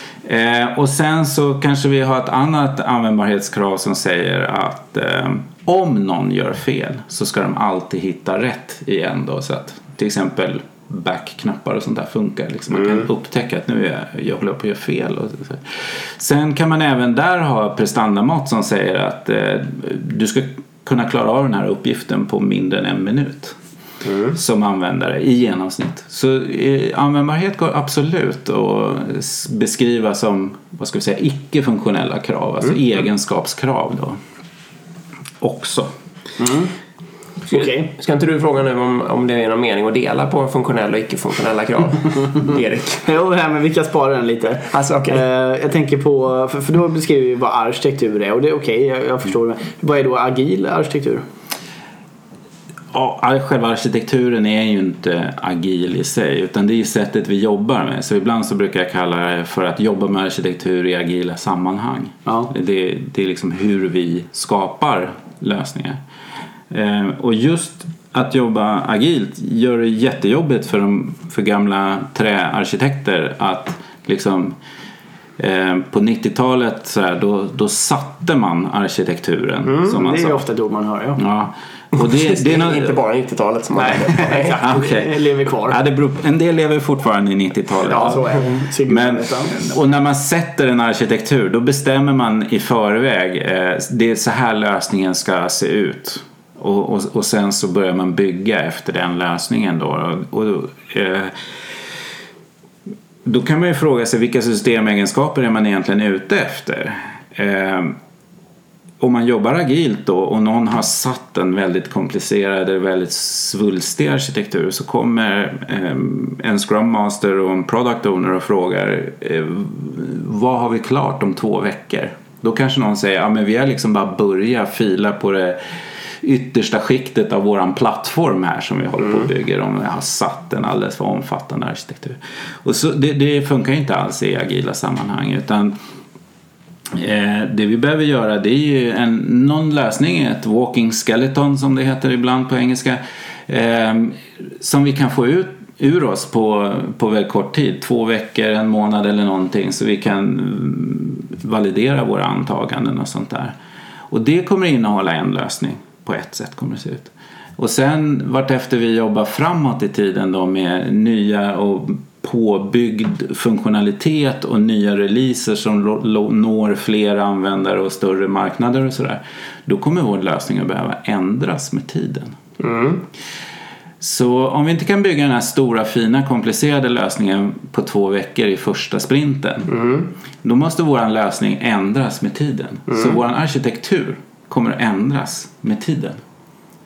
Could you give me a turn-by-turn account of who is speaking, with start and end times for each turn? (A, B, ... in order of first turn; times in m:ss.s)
0:00.2-0:23.6 A
0:24.0-0:24.4 B
0:24.3-0:34.2 A
0:35.4-0:35.9 A
0:36.4-0:36.7 C
0:37.5-0:43.1 B
0:37.5-0:37.9 C
0:43.0-0:51.2 C
0:44.7-0:45.2 B
0:52.9-1:06.0 A
1:06.7-1:14.6 A
1:15.4-1:20.4 A
1:19.9-1:21.2 C
1:21.2-1:23.0 A
1:22.0-1:24.6 B
1:23.8-1:25.8 C
1:24.6-1:41.4 A
1:27.8-1:29.5 C
1:43.2-1:48.0 A
1:49.0-2:05.6 A
2:06.2-2:15.8 A
2:16.9-2:33.6 A
2:34.1-2:52.4 A
2:52.6-2:53.0 B
2:54.0-2:59.8 A
2:59.7-3:00.1 B
3:00.4-3:06.2 A